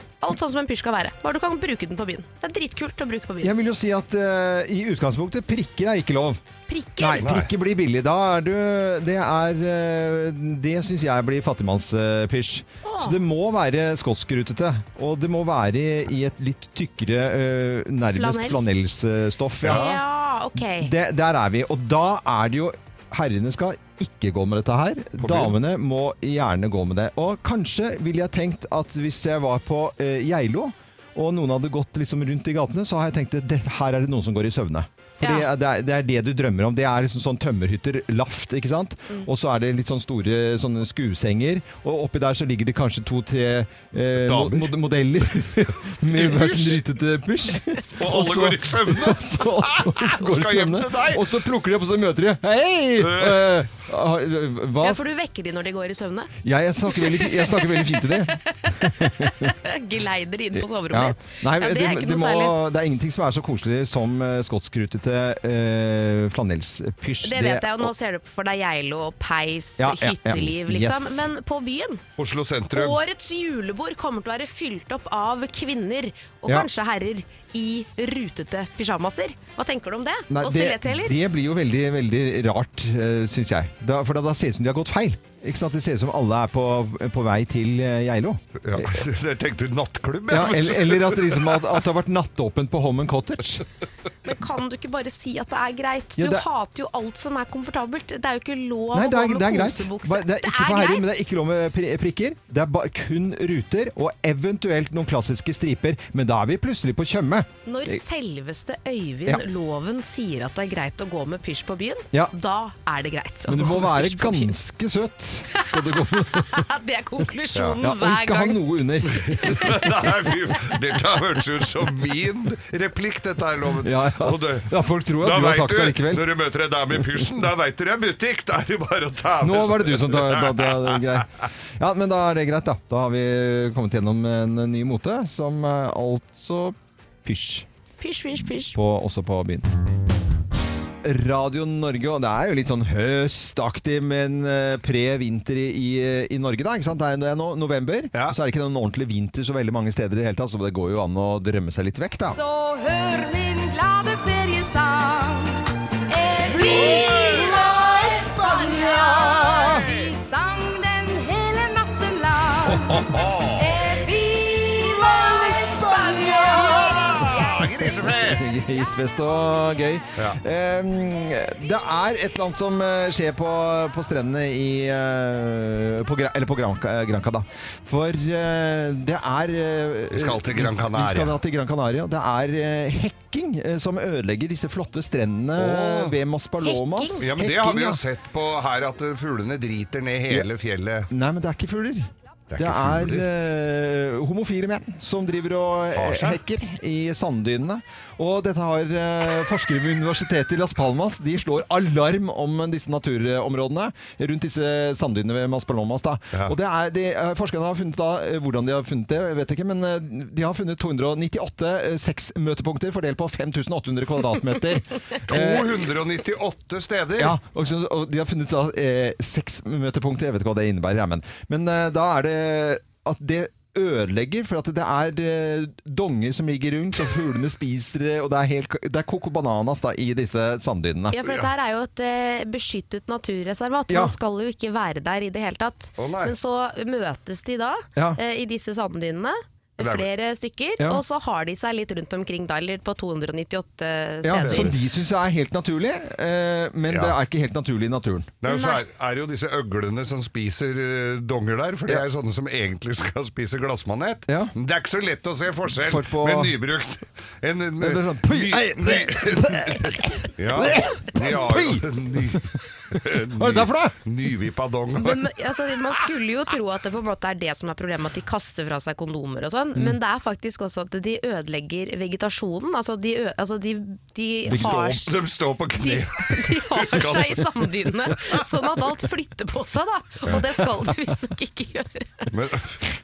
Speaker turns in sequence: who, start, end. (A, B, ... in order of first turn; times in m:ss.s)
0:00.2-0:03.5 A
0:03.4-0:06.4 B
0:06.7-0:07.3 A
0:07.0-0:19.9 B
0:07.2-0:07.5 C
0:12.8-0:13.2 A
0:18.2-0:18.6 A
0:19.6-0:20.0 C
0:19.7-0:20.9 A
0:20.7-0:55.0 B
0:25.2-0:25.6 C
0:35.2-0:35.5 A
0:44.2-0:44.7 C
0:46.1-0:46.8 C
0:48.0-0:51.3 C
0:53.0-0:53.7 C
0:54.8-0:56.3 A
0:56.4-0:59.5 B
0:57.0-1:02.6 A
1:00.6-1:07.9 B
1:07.2-1:12.0 A
1:09.8-1:11.3 B
1:12.2-1:13.0 C
1:12.7-1:21.2 A
1:20.3-1:29.0 B
1:28.6-1:31.7 C
1:30.3-1:33.6 B
1:34.2-1:41.0 A
1:36.2-1:36.4 B
1:38.9-1:48.0 B
1:47.7-1:54.6 A
1:53.5-1:56.7 B
1:55.6-1:58.6 A
1:57.8-1:59.8 B
1:59.1-2:11.4 C
2:03.8-2:06.3 B
2:06.9-2:07.3 B
2:09.4-2:17.7 B
2:18.0-2:18.8 A
2:18.7-2:19.7 B
2:21.0-2:32.4 B
2:32.3-2:42.9 D
2:36.5-2:39.8 B
2:36.7-2:37.5 C
2:42.7-2:43.8 C
2:43.6-2:46.9 D
2:44.8-3:08.0 B
2:46.7-2:48.6 C
3:00.1-3:01.4 C
3:05.6-3:06.2 C
3:06.6-3:07.2 A
3:07.2-3:11.1 C
3:11.1-3:35.8 B
3:12.5-3:13.3 C
3:16.0-3:16.4 C
3:35.3-3:37.4 C
3:37.2-3:51.2 B
3:51.1-4:04.7 A
3:53.9-3:54.2 B
3:56.0-3:56.3 C
3:59.8-4:00.1 C
4:04.2-4:08.3 B
4:04.4-4:04.7 C
4:06.9-4:07.2 C
4:08.4-4:25.3 C
4:08.5-4:08.8 A
4:14.3-4:14.5 B
4:15.7-4:16.6 B
4:17.8-4:22.6 B
4:23.4-4:24.0 B
4:25.0-4:35.1 A
4:34.5-4:34.8 B
4:34.5-4:37.7 C
4:35.8-4:42.3 A
4:42.3-4:42.8 C